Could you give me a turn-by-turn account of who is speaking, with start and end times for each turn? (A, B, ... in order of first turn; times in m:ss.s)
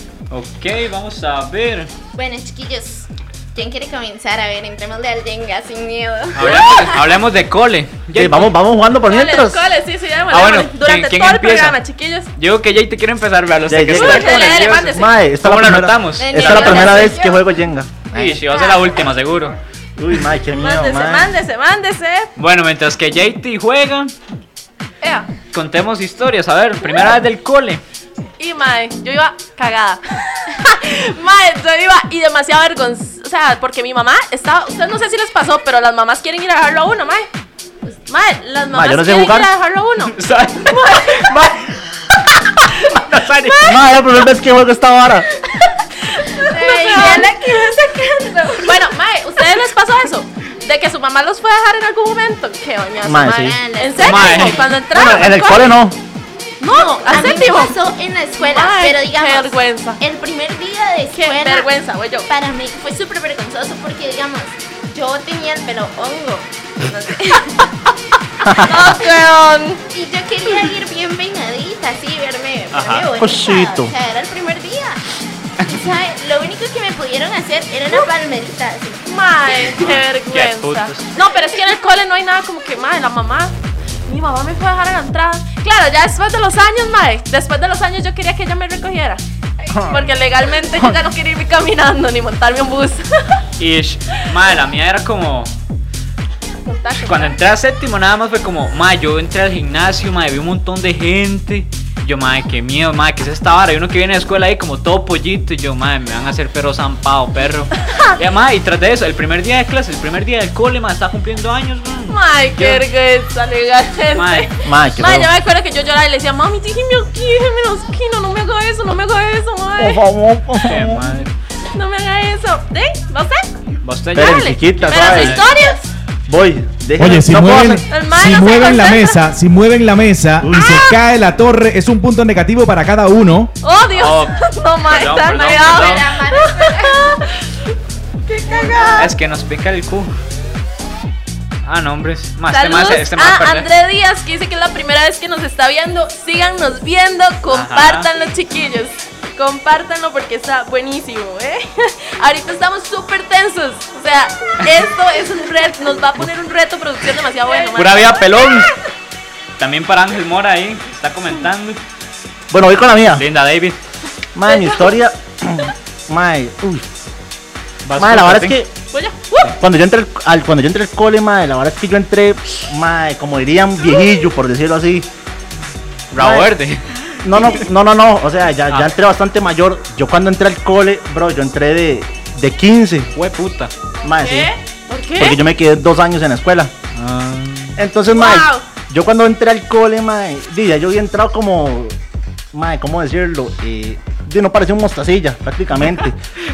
0:00.3-0:01.9 A
0:02.2-0:07.0 B
0:06.4-0:08.5 A
0:08.1-0:09.6 C
0:09.1-0:12.3 D
0:10.3-0:11.8 A
0:12.4-0:17.1 A
0:13.7-0:18.4 C
0:13.9-0:15.2 D
0:16.2-0:17.4 B
0:18.1-0:19.6 A
0:18.5-0:18.9 D
0:20.0-0:21.3 C
0:20.6-0:22.3 D
0:22.4-0:24.1 A
0:25.0-0:25.3 D
0:25.5-0:27.8 A
0:28.4-0:37.3 D
0:37.9-0:41.3 D
0:38.7-0:39.5 C
0:40.1-0:42.0 A
0:42.6-0:43.6 A
0:43.5-0:43.8 D
0:43.6-0:45.3 C
0:45.6-0:55.7 D
0:46.4-0:48.8 B
0:53.0-0:53.6 C
0:53.4-0:54.6 B
0:54.0-0:54.7 A
0:54.9-0:56.0 C
0:56.6-0:57.8 D
0:57.0-1:01.7 B
0:58.4-1:00.0 D
1:01.1-1:02.3 D
1:02.3-1:07.6 B
1:06.9-1:07.5 D
1:08.4-1:08.9 C
1:08.5-1:09.8 D
1:09.9-1:15.0 B
1:12.7-1:13.1 A
1:13.2-1:13.9 C
1:15.6-1:19.0 B
1:19.0-1:23.5 D
1:19.8-1:21.1 A
1:24.1-1:33.4 D
1:29.7-1:30.1 C
1:33.6-1:35.5 A
1:36.6-1:37.4 D
1:37.0-1:52.8 A
1:47.8-1:48.2 D
1:52.1-2:00.0 D
1:54.1-1:54.5 A
1:54.6-1:55.3 C
1:59.8-2:01.0 C
2:00.6-2:01.3 A
2:01.7-2:03.5 D
2:03.8-2:05.5 A
2:04.1-2:05.4 C
2:04.2-2:05.9 D
2:06.3-2:07.8 C
2:07.0-2:13.5 E
2:07.9-2:09.2 D
2:10.4-2:10.8 C
2:10.5-2:11.0 D
2:13.6-2:17.5 D
2:14.0-2:16.2 A
2:15.6-2:17.0 B
2:18.3-2:19.1 D
2:18.9-2:20.1 A
2:21.6-2:23.7 A
2:22.5-2:38.8 D
2:27.5-2:28.1 A
2:37.7-2:38.7 A
2:39.6-2:41.8 A
2:42.5-2:43.2 C
2:43.1-2:43.8 A
2:44.4-2:46.9 C
2:44.5-2:44.9 D
2:47.8-2:48.6 A
2:48.0-2:48.7 C
2:48.9-2:49.5 D
2:49.6-2:55.1 C
2:56.1-2:57.6 A
2:56.2-2:56.6 C
2:57.2-3:03.1 C
3:03.2-3:03.7 A
3:04.0-3:05.4 D
3:04.0-3:04.5 C
3:05.2-3:06.7 C
3:07.0-3:07.8 A
3:07.8-3:12.0 C
3:08.1-3:08.7 D
3:12.5-3:16.2 C